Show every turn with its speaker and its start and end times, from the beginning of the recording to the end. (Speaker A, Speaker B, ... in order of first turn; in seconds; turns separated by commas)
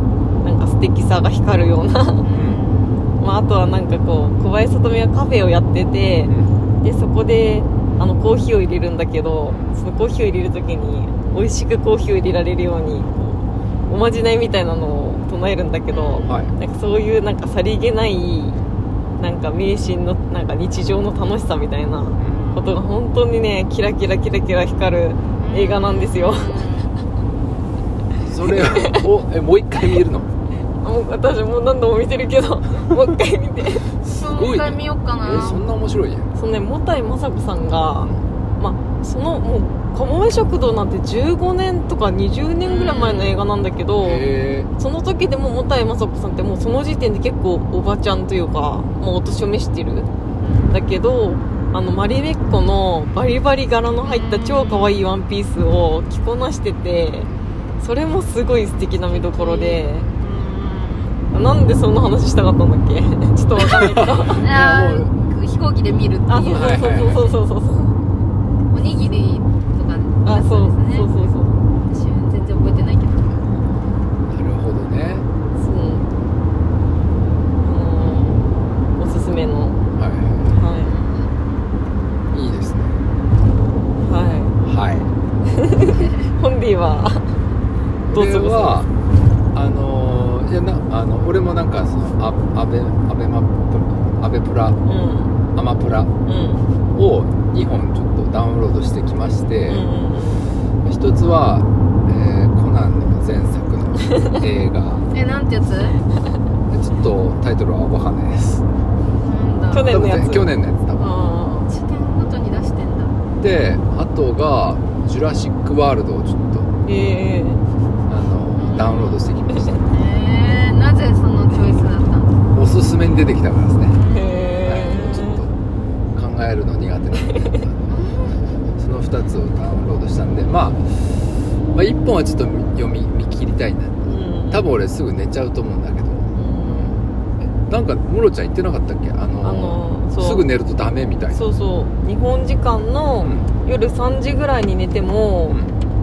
Speaker A: 0.4-2.3, Speaker B: 2.2-3.1, Speaker C: 2.3-2.6, Speaker A: 3.2-13.2, Speaker C: 6.3-6.5, Speaker C: 9.5-9.8, Speaker A: 13.9-18.6, Speaker B: 15.9-16.5, Speaker C: 16.2-16.6, Speaker A: 19.2-26.5, Speaker B: 22.2-22.8, Speaker B: 25.4-26.9, Speaker C: 28.1-30.3, Speaker A: 28.6-28.9, Speaker A: 30.8-33.9, Speaker C: 34.0-36.3, Speaker B: 34.1-35.6, Speaker A: 36.4-50.1, Speaker B: 42.6-43.4, Speaker C: 44.0-44.7, Speaker B: 50.4-50.8, Speaker A: 50.7-60.1, Speaker B: 54.0-55.1, Speaker B: 58.9-61.2, Speaker A: 61.3-64.5, Speaker C: 63.6-65.1, Speaker B: 64.4-67.4, Speaker A: 66.3-68.0, Speaker C: 66.5-67.2, Speaker B: 68.7-71.3, Speaker A: 70.2-71.5, Speaker B: 71.8-73.4, Speaker C: 74.3-75.3, Speaker A: 75.6-76.1, Speaker A: 77.6-78.4, Speaker B: 78.0-78.5, Speaker A: 79.0-79.8, Speaker C: 79.9-80.5, Speaker A: 80.5-81.0, Speaker C: 82.3-82.9, Speaker A: 84.0-84.6, Speaker C: 84.6-85.1, Speaker A: 85.6-87.3, Speaker C: 88.1-88.9, Speaker A: 88.1-88.8, Speaker C: 89.5-94.8, Speaker A: 94.8-95.3, Speaker C: 95.5-96.1, Speaker A: 96.3-96.7, Speaker C: 96.9-99.9, Speaker A: 99.7-100.5, Speaker C: 100.8-105.0, Speaker B: 105.1-106.0, Speaker C: 106.7-108.6, Speaker B: 109.2-109.9, Speaker A: 109.7-111.7, Speaker C: 109.8-111.2, Speaker B: 111.7-113.2, Speaker C: 113.4-116.7, Speaker A: 116.9-117.6, Speaker C: 118.1-119.8, Speaker B: 118.6-119.2, Speaker B: 119.8-122.4, Speaker C: 122.5-124.0, Speaker B: 123.9-124.8, Speaker A: 124.1-125.4, Speaker C: 124.6-125.5, Speaker C: 126.2-127.9, Speaker B: 127.9-128.7, Speaker C: 128.8-136.9, Speaker A: 134.1-134.7, Speaker A: 136.3-137.0, Speaker C: 137.6-141.4, Speaker A: 139.4-140.5, Speaker A: 141.3-145.6, Speaker C: 143.2-143.5, Speaker C: 145.5-145.7